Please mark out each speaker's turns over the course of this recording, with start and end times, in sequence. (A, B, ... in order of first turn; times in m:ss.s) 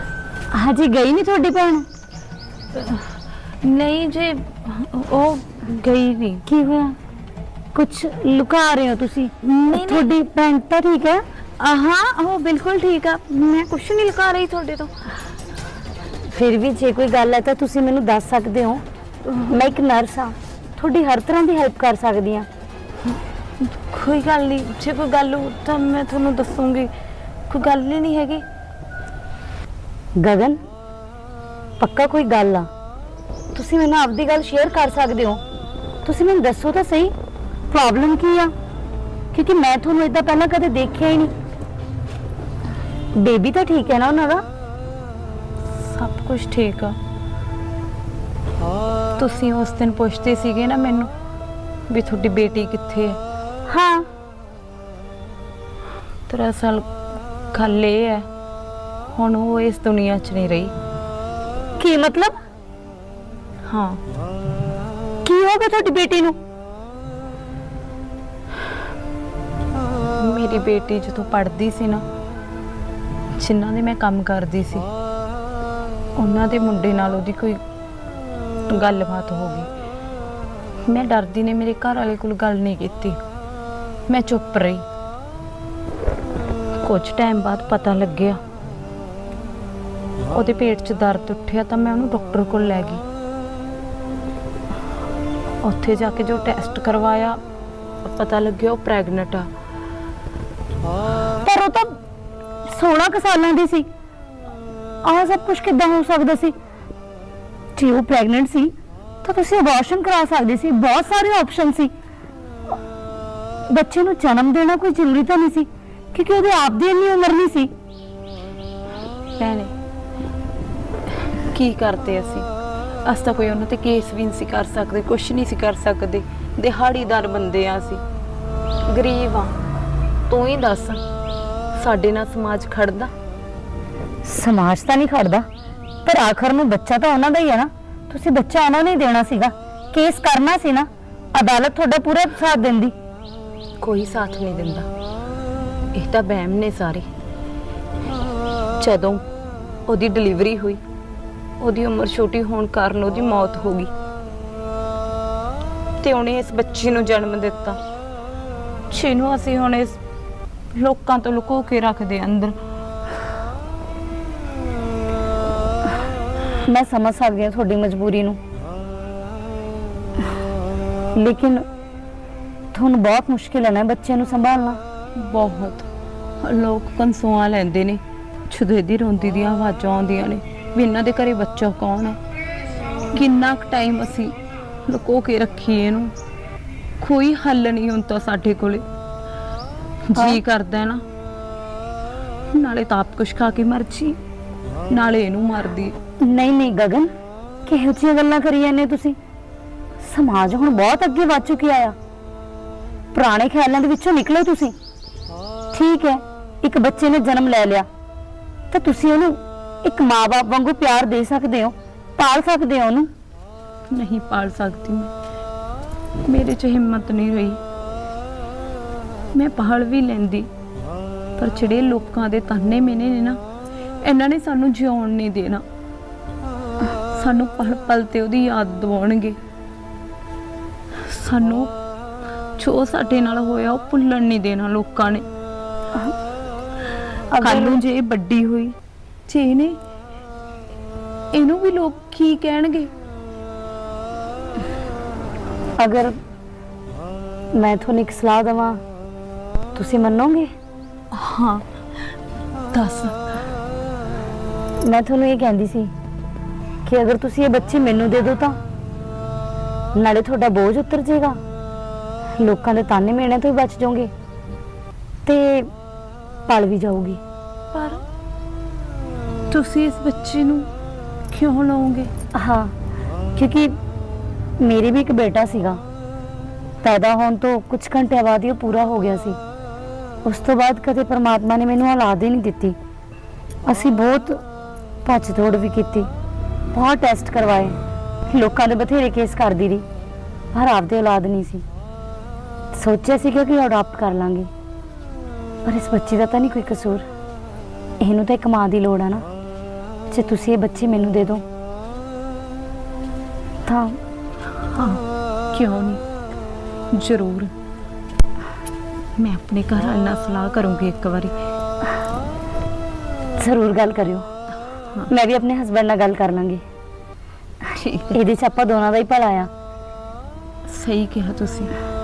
0:00.5-0:01.9 A
0:02.7-0:03.1 B
0:03.6-0:06.4 B
0:06.5-0:07.0 A
0:07.7-0:11.2 A
0:09.4-0:10.0 B
0:11.6-0:14.9 B
0:16.3-0:18.8 A
0:19.2-0:19.6 B
0:19.5-0:22.5 A
0:23.6-0:26.9 B
0:27.5-0:28.4 B
0:30.2-0:30.6 A
0:31.8-0:32.7 A
0:33.5-0:35.4 A
0:36.0-0:37.1 A
0:37.7-0:38.5 A
0:39.3-0:41.3 A
0:43.2-0:44.4 A
0:45.8-0:47.0 B
0:49.2-0:51.1 B
0:51.9-0:53.2 B
0:53.7-0:54.1 A
0:56.3-0:56.9 B
0:57.5-0:58.2 B
0:59.1-1:00.7 B
1:01.8-1:02.4 A
1:03.6-1:04.0 B
1:05.2-1:06.4 A
1:10.2-1:12.0 B
1:13.4-1:14.9 B
1:16.2-1:17.6 B
1:18.7-1:19.7 B
1:20.9-1:23.2 B
1:24.1-1:24.8 B
1:26.8-1:28.4 B
1:30.3-1:33.0 B
1:35.6-1:37.4 B
1:38.0-1:39.5 B
1:41.4-1:42.0 A
1:42.7-1:43.9 A
1:45.0-1:46.5 A
1:47.8-1:51.9 A
1:53.7-1:57.7 A
1:59.4-1:59.7 B
2:01.5-2:02.5 B
2:03.0-2:08.0 B
2:08.9-2:09.5 B
2:10.3-2:11.0 B
2:11.8-2:13.1 B
2:14.2-2:15.5 A
2:16.0-2:22.9 A
2:23.8-2:24.9 B
2:25.9-2:27.1 B
2:28.8-2:29.2 B
2:29.9-2:30.8 B
2:31.6-2:33.9 B
2:36.0-2:37.8 B
2:38.9-2:40.0 B
2:40.7-2:42.6 B
2:46.6-2:48.4 A
2:51.1-2:51.6 A
2:52.7-2:54.8 A
2:55.2-2:55.9 B
2:56.4-3:02.2 B
3:03.1-3:04.3 B
3:04.9-3:06.1 B
3:07.0-3:08.8 B
3:10.1-3:11.0 B
3:10.2-3:10.4 A
3:12.5-3:14.2 B
3:14.9-3:16.0 B
3:16.2-3:17.1 A
3:17.7-3:19.2 A
3:20.0-3:22.0 A
3:23.1-3:24.8 A
3:25.7-3:27.9 A
3:28.7-3:33.1 A
3:33.9-3:35.1 B
3:36.2-3:37.6 B
3:39.3-3:40.5 B
3:41.4-3:43.4 B
3:44.0-3:45.6 B
3:47.1-3:49.4 B
3:51.0-3:51.7 B
3:52.6-3:55.2 B
3:57.3-3:57.8 A
3:57.4-3:58.8 B
3:59.3-3:59.8 B
4:01.3-4:02.9 B
4:05.8-4:06.1 A
4:07.5-4:08.8 A
4:09.8-4:10.5 A
4:11.1-4:11.6 B
4:12.7-4:13.2 B
4:14.8-4:15.9 A
4:16.8-4:18.6 A
4:20.0-4:21.4 A
4:22.4-4:24.1 A
4:25.2-4:25.7 A
4:26.5-4:27.2 A
4:27.7-4:28.0 B
4:29.5-4:30.7 B
4:31.3-4:32.1 B
4:32.3-4:32.7 A
4:33.4-4:33.8 A
4:34.6-4:35.8 A
4:36.8-4:39.4 A
4:40.2-4:42.8 A
4:43.6-4:44.4 A
4:45.0-4:46.1 A
4:46.7-4:47.8 A
4:48.3-4:49.8 A
4:50.5-4:51.6 A
4:52.7-4:54.5 A
4:55.6-4:57.0 A
4:58.0-4:59.2 A
5:00.1-5:01.4 A
5:03.6-5:04.0 A
5:04.7-5:05.0 B
5:05.5-5:06.0 B
5:06.9-5:07.5 B
5:09.2-5:11.3 B
5:13.4-5:14.3 A
5:15.1-5:16.6 A
5:17.7-5:18.1 B
5:18.1-5:19.5 A
5:20.7-5:21.7 B